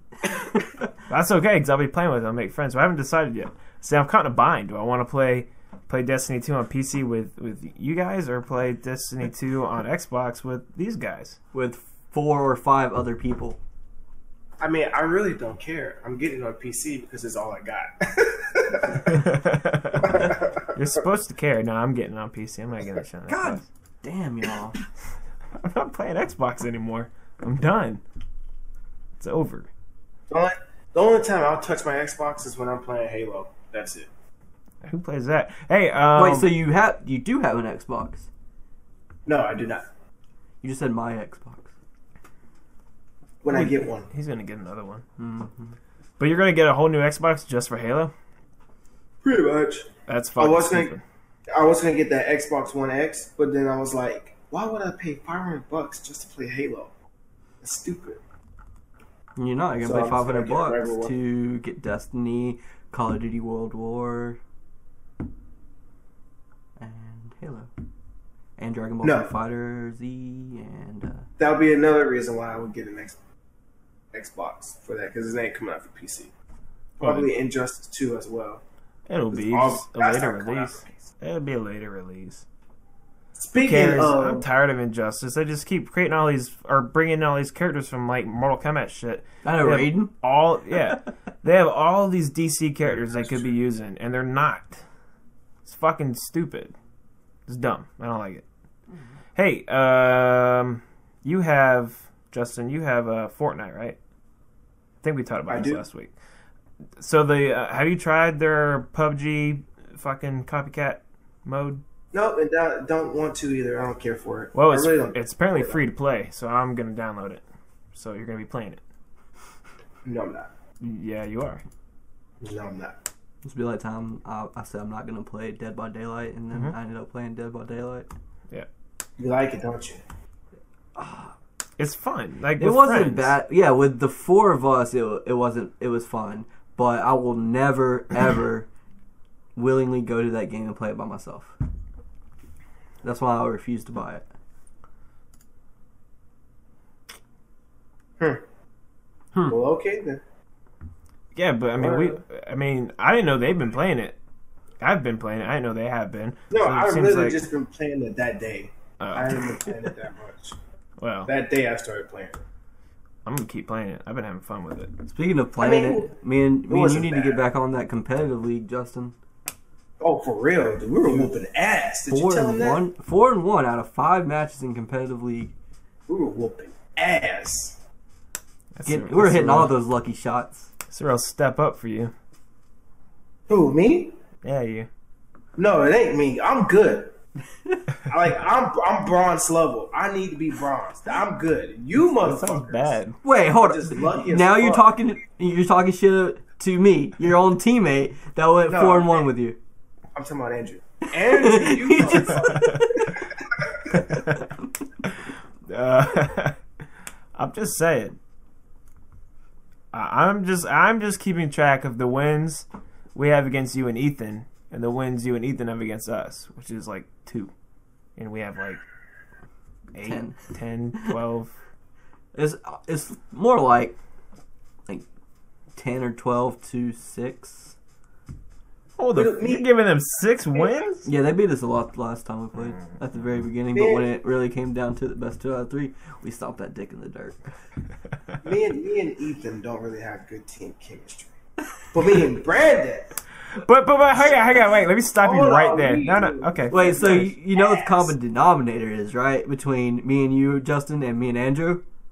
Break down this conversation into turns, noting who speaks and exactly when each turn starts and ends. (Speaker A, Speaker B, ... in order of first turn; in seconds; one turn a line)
Speaker A: 0.3-0.8
Speaker B: 1.1-11.4
Speaker A: 11.5-13.6
Speaker C: 14.6-19.2
Speaker B: 19.0-23.6
Speaker C: 20.0-20.7
Speaker A: 23.3-24.8
Speaker B: 25.5-28.0
Speaker B: 29.2-29.7
Speaker C: 30.3-34.1
Speaker B: 34.8-36.5
Speaker A: 36.1-38.3
Speaker C: 39.2-39.9
Speaker A: 40.6-41.7
Speaker C: 43.4-44.1
Speaker B: 43.5-45.0
Speaker A: 45.2-45.8
Speaker B: 46.2-48.1
Speaker C: 49.2-50.9
Speaker B: 50.1-51.0
Speaker C: 51.5-56.9
Speaker C: 57.6-58.2
Speaker A: 59.4-64.4
Speaker C: 59.8-61.1
Speaker A: 66.8-67.7
Speaker A: 68.6-71.2
Speaker C: 69.0-69.3
Speaker C: 71.4-73.2
Speaker C: 74.1-76.3
Speaker C: 77.0-78.6
Speaker B: 77.0-77.3
Speaker B: 79.1-82.5
Speaker C: 79.3-81.1
Speaker C: 83.3-84.5
Speaker B: 83.6-94.8
Speaker A: 89.4-90.1
Speaker C: 92.9-93.5
Speaker B: 95.6-96.7
Speaker B: 97.5-98.4
Speaker B: 99.3-104.0
Speaker B: 105.0-106.1
Speaker C: 105.5-105.8
Speaker B: 107.0-111.8
Speaker C: 112.1-115.8
Speaker B: 114.5-117.4
Speaker B: 117.9-118.8
Speaker C: 120.0-120.5
Speaker B: 120.8-121.6
Speaker C: 122.4-123.0
Speaker A: 123.4-128.1
Speaker C: 129.2-130.0
Speaker A: 131.0-131.3
Speaker B: 131.8-133.4
Speaker A: 132.6-138.7
Speaker A: 139.6-141.5
Speaker A: 143.0-144.2
Speaker C: 149.5-150.2
Speaker B: 151.3-154.2
Speaker C: 151.8-152.2
Speaker B: 154.8-157.5
Speaker C: 156.5-160.6
Speaker B: 159.0-159.7
Speaker B: 161.0-161.3
Speaker C: 161.2-162.4
Speaker B: 163.2-164.9
Speaker A: 165.1-169.1
Speaker C: 165.6-166.1
Speaker C: 166.7-167.4
Speaker C: 170.0-172.8
Speaker A: 172.1-175.5
Speaker C: 176.1-177.8
Speaker B: 178.8-179.7
Speaker A: 178.8-180.7
Speaker B: 180.9-182.1
Speaker C: 183.5-184.2
Speaker B: 184.4-184.9
Speaker C: 185.6-187.1
Speaker C: 188.0-193.0
Speaker B: 192.2-193.2
Speaker A: 193.2-199.6
Speaker C: 193.6-194.9
Speaker C: 198.7-199.3
Speaker C: 200.1-203.9
Speaker A: 201.1-203.1
Speaker B: 202.5-202.9
Speaker B: 203.9-204.5
Speaker A: 204.1-204.4
Speaker B: 205.0-206.6
Speaker B: 207.3-208.2
Speaker B: 209.9-217.5
Speaker B: 218.2-218.8
Speaker B: 219.9-221.6
Speaker A: 220.0-220.4
Speaker A: 222.3-224.0
Speaker A: 225.8-227.7
Speaker B: 229.0-231.1
Speaker C: 229.1-229.7
Speaker A: 231.0-237.4
Speaker C: 233.7-234.1
Speaker C: 238.4-241.3
Speaker C: 241.9-243.1
Speaker B: 243.5-247.3
Speaker C: 245.2-248.1
Speaker A: 246.7-251.8